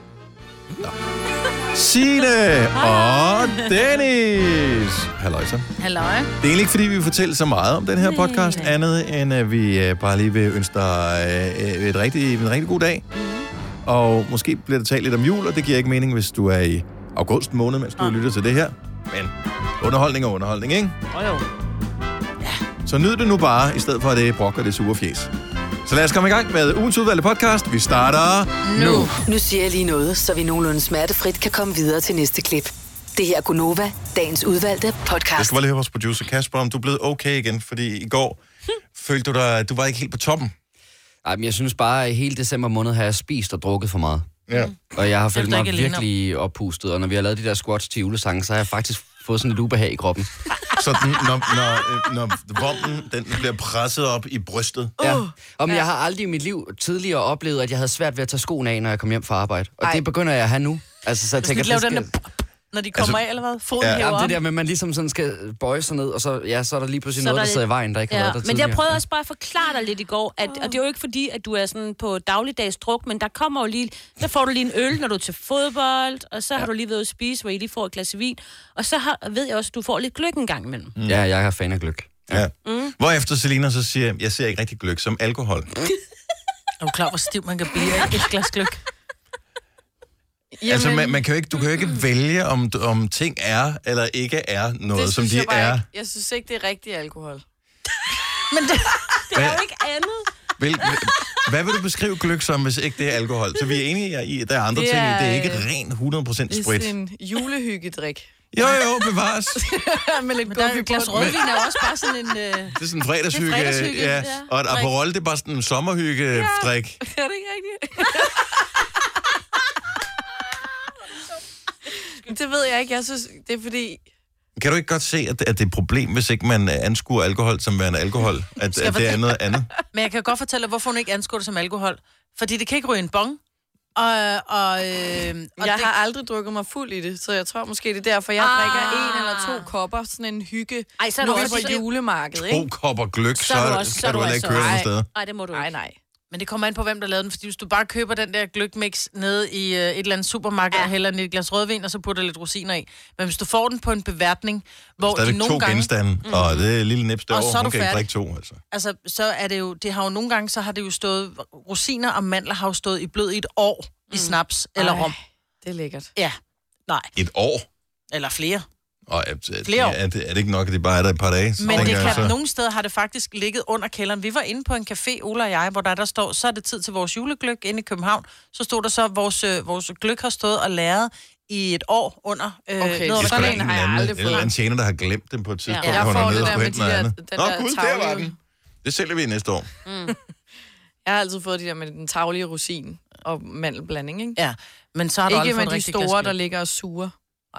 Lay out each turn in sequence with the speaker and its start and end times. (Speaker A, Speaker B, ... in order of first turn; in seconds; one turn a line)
Speaker A: 1.7-5.7
Speaker B: 2.8-4.0
Speaker C: 5.8-6.3
Speaker A: 6.4-13.1
Speaker B: 8.0-8.7
Speaker B: 13.1-13.5
Speaker A: 13.9-21.0
Speaker C: 21.1-21.4
Speaker A: 22.8-25.3
Speaker A: 25.9-29.1
Speaker C: 28.6-29.1
Speaker D: 29.1-35.5
Speaker A: 35.4-38.4
Speaker A: 38.9-40.5
Speaker E: 41.2-44.4
Speaker E: 44.9-50.3
Speaker B: 45.4-46.0
Speaker A: 50.8-55.0
Speaker F: 55.0-55.3
Speaker E: 55.0-62.1
Speaker C: 61.4-64.4
Speaker A: 62.9-63.2
Speaker A: 63.8-64.0
Speaker E: 63.8-69.0
Speaker B: 67.2-81.0
Speaker E: 81.0-82.5
Speaker A: 82.3-85.7
Speaker B: 82.7-83.0
Speaker C: 86.8-88.8
Speaker F: 90.6-91.2
Speaker A: 90.6-95.8
Speaker F: 94.9-97.4
Speaker C: 98.5-99.1
Speaker B: 99.2-100.3
Speaker A: 99.3-99.6
Speaker A: 100.6-106.9
Speaker F: 104.8-105.6
Speaker F: 106.5-108.3
Speaker A: 108.5-109.6
Speaker F: 109.6-111.9
Speaker C: 110.5-112.8
Speaker A: 112.8-117.0
Speaker C: 113.3-114.9
Speaker B: 114.2-114.5
Speaker F: 116.3-118.5
Speaker F: 122.1-124.0
Speaker A: 124.6-129.7
Speaker C: 128.8-129.2
Speaker C: 129.9-133.4
Speaker C: 134.0-135.9
Speaker F: 135.6-142.7
Speaker B: 138.4-139.7
Speaker B: 141.0-141.8
Speaker A: 142.3-145.1
Speaker B: 143.4-145.7
Speaker F: 144.4-144.9
Speaker F: 145.5-146.0
Speaker C: 146.3-155.9
Speaker A: 155.0-158.6
Speaker B: 156.2-156.7
Speaker C: 157.3-158.0
Speaker C: 158.7-165.2
Speaker B: 164.1-164.4
Speaker F: 164.8-166.1
Speaker A: 167.2-167.7
Speaker C: 168.1-168.7
Speaker A: 169.1-172.4
Speaker C: 169.7-170.0
Speaker C: 171.6-184.5
Speaker F: 171.8-172.2
Speaker F: 182.8-184.5
Speaker A: 183.2-189.7
Speaker B: 185.7-185.9
Speaker F: 185.9-188.3
Speaker C: 185.9-186.5
Speaker B: 189.8-190.2
Speaker F: 191.1-194.4
Speaker C: 194.4-196.4
Speaker F: 195.3-197.1